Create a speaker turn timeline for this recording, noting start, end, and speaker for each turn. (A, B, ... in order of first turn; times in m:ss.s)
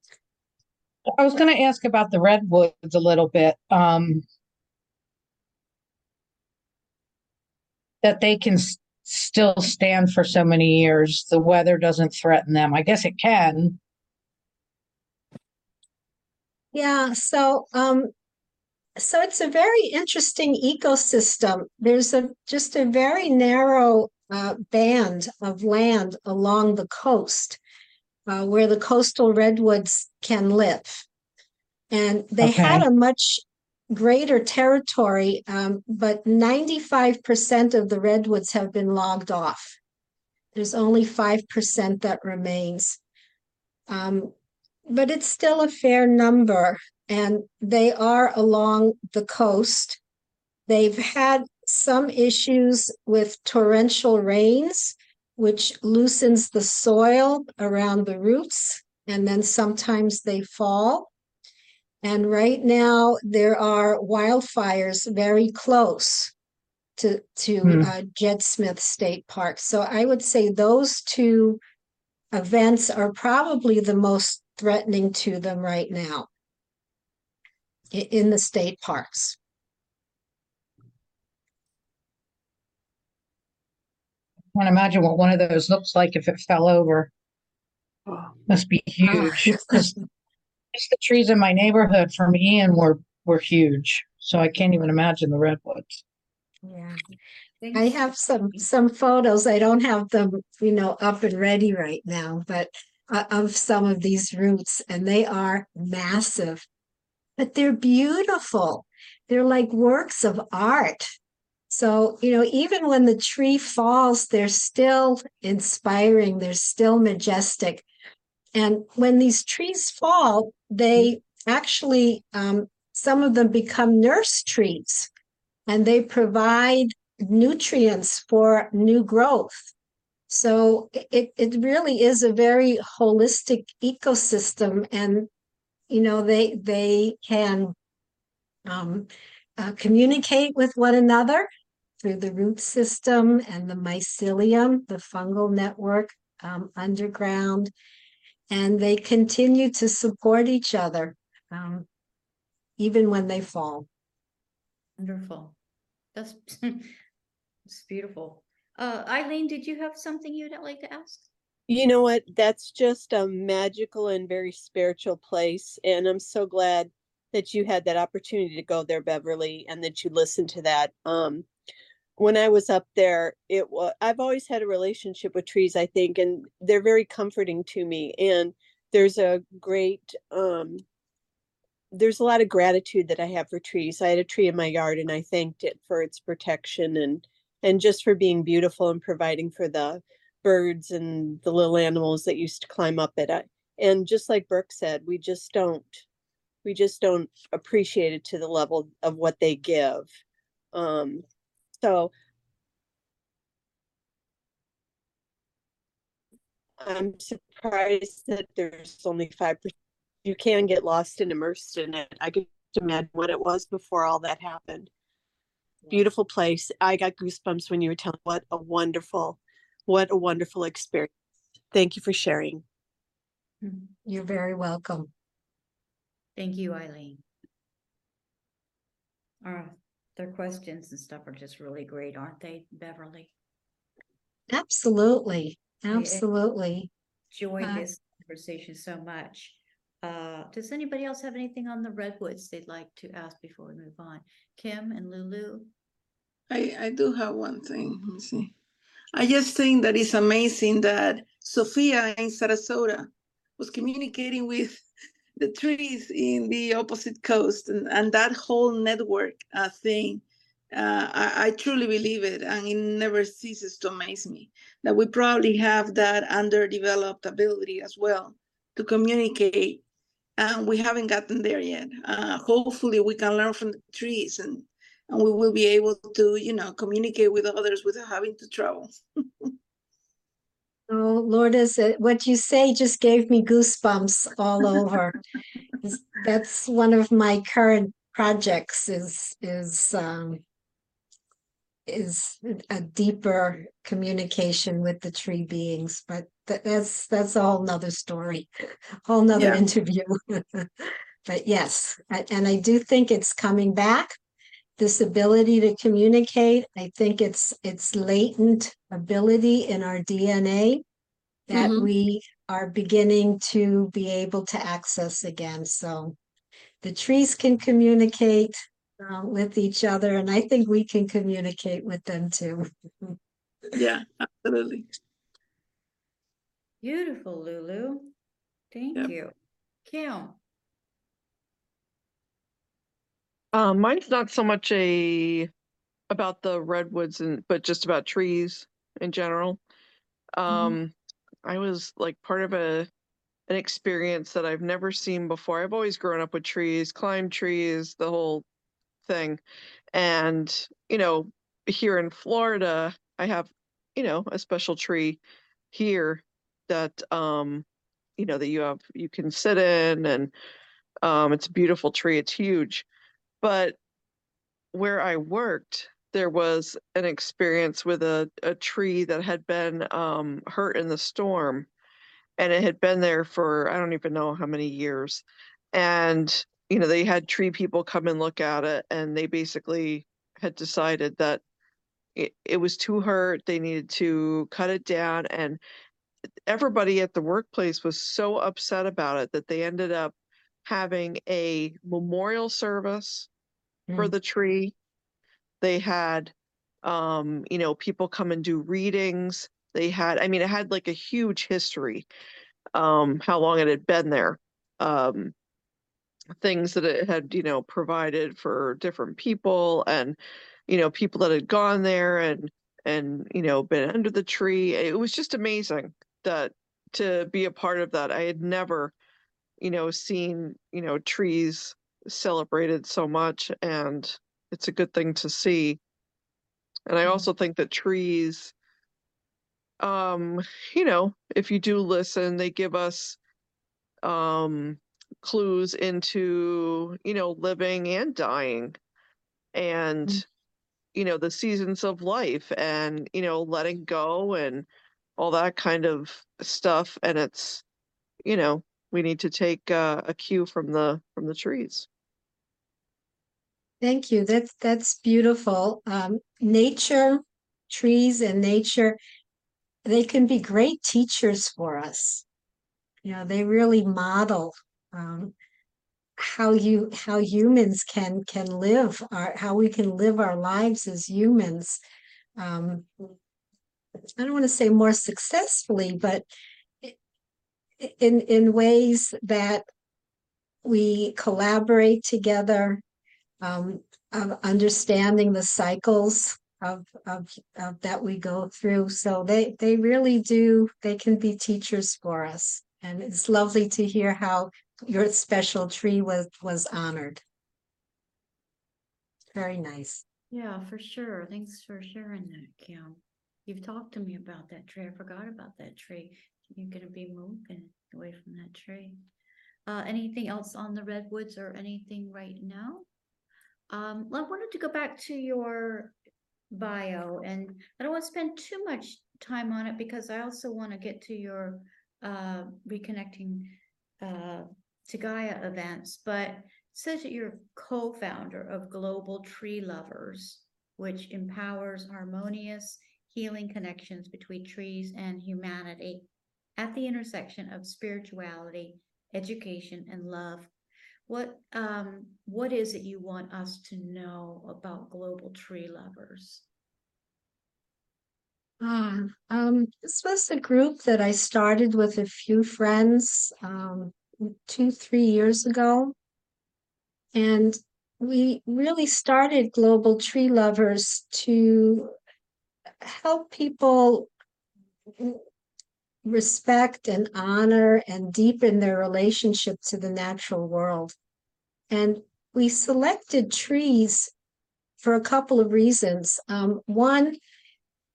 0:01.2-0:04.2 A
0:08.0-0:13.8 A
0:16.7-0:18.1 B
0:19.0-0:27.6 B
0:28.3-0:31.1 B
0:31.9-0:39.8 B
0:32.4-0:32.8 A
0:40.5-0:43.0 B
0:43.9-0:44.3 B
0:44.9-0:50.0 B
0:50.7-1:01.1 B
1:02.0-1:06.3 B
1:07.0-1:11.6 B
1:12.3-1:16.3 B
1:17.9-1:19.4 B
1:24.6-1:27.1 A
1:28.5-1:30.0 A
1:29.0-1:29.8 B
1:30.7-1:36.0 A
1:36.6-1:37.0 B
1:37.7-1:46.6 B
1:47.4-1:51.1 B
1:51.7-1:57.8 B
1:58.6-2:05.1 B
2:05.7-2:09.7 B
2:10.3-2:15.3 B
2:15.9-2:17.8 B
2:18.7-2:21.5 B
2:22.0-2:27.7 B
2:28.5-2:31.9 B
2:32.8-2:33.9 B
2:35.0-2:35.6 C
2:36.2-2:36.9 C
2:37.7-2:41.3 C
2:41.7-2:51.5 D
2:52.2-3:00.8 D
3:01.9-3:16.0 D
3:16.6-3:20.1 D
3:20.7-3:21.2 D
3:21.8-3:22.1 D
3:26.8-3:29.7 D
3:30.2-3:34.9 D
3:35.9-3:41.1 D
3:41.7-3:42.6 D
3:43.6-3:43.9 C
3:44.1-3:45.1 B
3:46.4-3:47.2 C
3:49.4-3:53.3 C
3:54.5-3:56.9 B
3:55.9-3:56.3 C
3:57.3-4:05.7 C
4:06.5-4:08.5 E
4:09.1-4:14.8 E
4:15.4-4:29.8 E
4:30.4-4:39.0 E
4:40.9-4:45.2 B
4:45.8-4:50.4 B
4:51.9-4:58.5 B
4:59.0-5:04.2 B
4:59.3-4:59.6 E
5:04.8-5:10.8 B
5:11.5-5:16.2 B
5:16.8-5:23.2 B
5:23.7-5:24.9 E
5:26.8-5:28.1 C
5:28.7-5:29.3 C
5:29.9-5:30.4 C
5:33.5-5:35.5 F
5:36.1-5:39.6 F
5:40.4-5:40.9 F
5:41.5-5:42.9 F
5:43.5-5:48.4 F
5:49.0-5:49.4 F
5:49.9-5:55.2 F
5:55.7-5:57.6 F
5:58.2-6:00.3 F
6:01.0-6:02.8 F
6:03.4-6:03.8 F
6:04.7-6:11.7 F
6:12.4-6:21.4 F
6:22.2-6:25.6 F
6:26.5-6:33.3 F
6:34.0-6:34.8 F
6:35.6-6:36.3 F
6:36.8-6:42.1 F
6:42.8-6:45.3 F
6:46.4-6:50.2 F
6:50.7-6:58.9 F
6:59.6-7:05.8 F
7:06.9-7:08.5 F
7:09.8-7:13.2 F
7:14.0-7:18.8 F
7:19.5-7:20.3 F
7:20.9-7:24.7 F
7:25.2-7:27.6 F
7:28.2-7:31.9 F
7:33.8-7:39.0 B
7:39.8-7:42.2 B
7:43.0-7:45.3 B
7:46.2-7:51.8 B
7:52.4-7:53.1 B
7:54.2-7:56.3 B
7:57.8-7:59.7 B
8:00.6-8:02.8 B
8:03.4-8:17.2 B
8:19.3-8:20.0 B
8:20.3-8:29.0 C
8:29.7-8:32.9 C
8:33.7-8:36.0 C
8:36.5-9:00.5 C
9:01.1-9:06.4 C
9:08.6-9:16.0 B
9:17.1-9:21.9 B
9:22.8-9:24.1 B
9:24.9-9:25.2 B
9:26.0-9:31.0 B
9:31.7-9:34.1 B
9:34.8-9:37.2 B